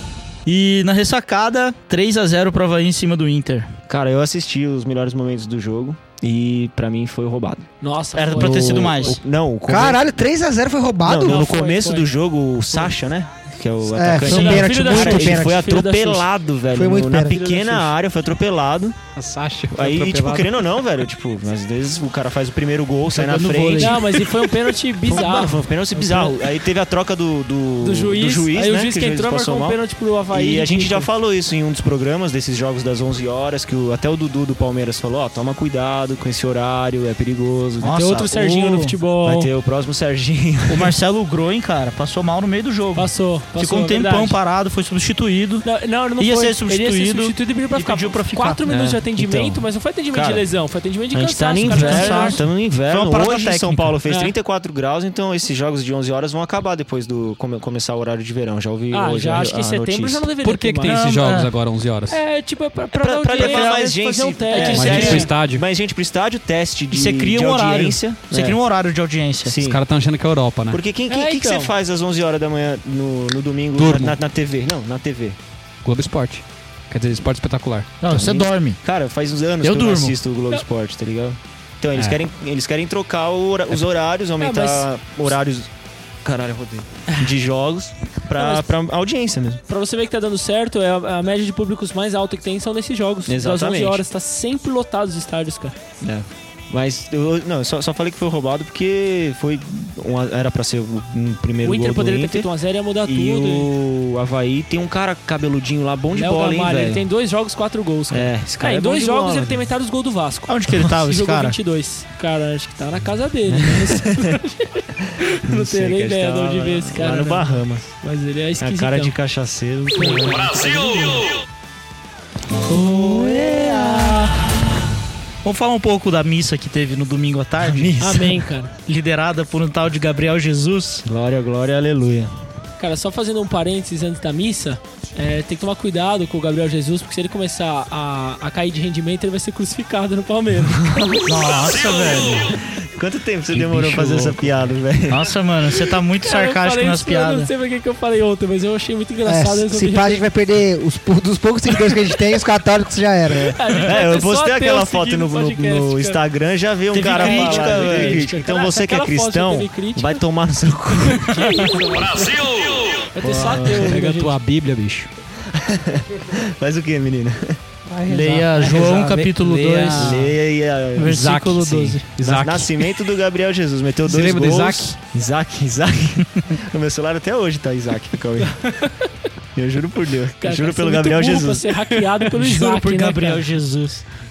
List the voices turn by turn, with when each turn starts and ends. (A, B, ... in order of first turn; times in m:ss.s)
0:00.5-0:03.7 A
0:03.9-0:07.7 B
0:07.8-0:09.2 C
0:08.2-0:09.2 A
0:08.3-0:10.0 B
0:09.7-0:11.5 D
0:11.0-0:19.0 B
0:11.2-0:12.1 C
0:13.9-0:15.6 D
0:14.2-0:16.3 C
0:16.7-0:17.4 D
0:17.4-0:17.8 C
0:19.2-0:20.7 E
0:19.7-0:24.0 B
0:23.1-0:24.2 A
0:23.8-0:26.4 C
0:25.0-0:38.0 B
0:27.8-0:31.1 C
0:37.8-0:39.0 A
0:37.8-0:39.5 C
0:39.2-0:40.9 B
0:40.7-0:48.6 A
0:43.0-0:44.4 C
0:45.6-0:52.4 C
0:48.7-0:50.5 B
0:51.1-1:00.2 B
0:51.6-0:53.9 A
0:54.1-0:54.4 C
0:58.9-1:01.1 C
1:00.4-1:02.2 E
1:00.9-1:01.5 A
1:02.1-1:05.4 C
1:02.9-1:08.6 B
1:03.4-1:03.8 A
1:04.6-1:05.0 A
1:04.6-1:05.6 E
1:06.9-1:09.6 A
1:09.4-1:09.8 B
1:09.6-1:10.8 E
1:10.7-1:15.4 B
1:11.1-1:11.7 C
1:13.8-1:14.2 E
1:15.8-1:17.9 E
1:18.0-1:18.8 A
1:18.1-1:25.7 B
1:19.6-1:20.2 A
1:24.4-1:24.9 C
1:26.2-1:29.6 B
1:28.4-1:28.7 C
1:29.7-1:35.8 C
1:33.3-1:34.0 B
1:36.0-1:42.5 B
1:41.6-1:43.7 C
1:43.0-1:47.0 B
1:46.1-1:59.2 C
1:48.1-1:49.6 B
1:50.5-1:51.6 A
1:53.5-1:54.4 B
1:55.3-1:57.9 B
1:58.6-2:00.8 B
1:59.9-2:01.2 C
2:02.7-2:04.3 B
2:05.4-2:11.0 A
2:07.6-2:08.1 B
2:08.0-2:08.7 C
2:11.0-2:12.3 B
2:12.8-2:21.1 C
2:20.9-2:21.3 B
2:21.3-2:22.6 A
2:22.6-2:25.3 B
2:23.5-2:24.5 A
2:25.1-2:27.5 A
2:26.2-2:30.2 C
2:29.2-2:33.5 D
2:33.3-2:41.4 B
2:33.6-2:36.2 C
2:36.9-2:38.3 A
2:37.0-2:40.2 C
2:41.1-2:44.4 C
2:43.2-2:43.9 B
2:43.3-2:45.1 E
2:45.5-2:47.6 B
2:47.9-2:50.3 E
2:48.1-2:50.3 A
2:50.0-2:51.3 B
2:51.0-2:52.2 A
2:51.0-2:53.0 E
2:52.2-2:58.8 B
2:54.0-2:55.0 E
2:58.5-2:59.1 C
2:59.6-3:01.7 B
3:00.4-3:03.5 C
3:02.2-3:04.0 A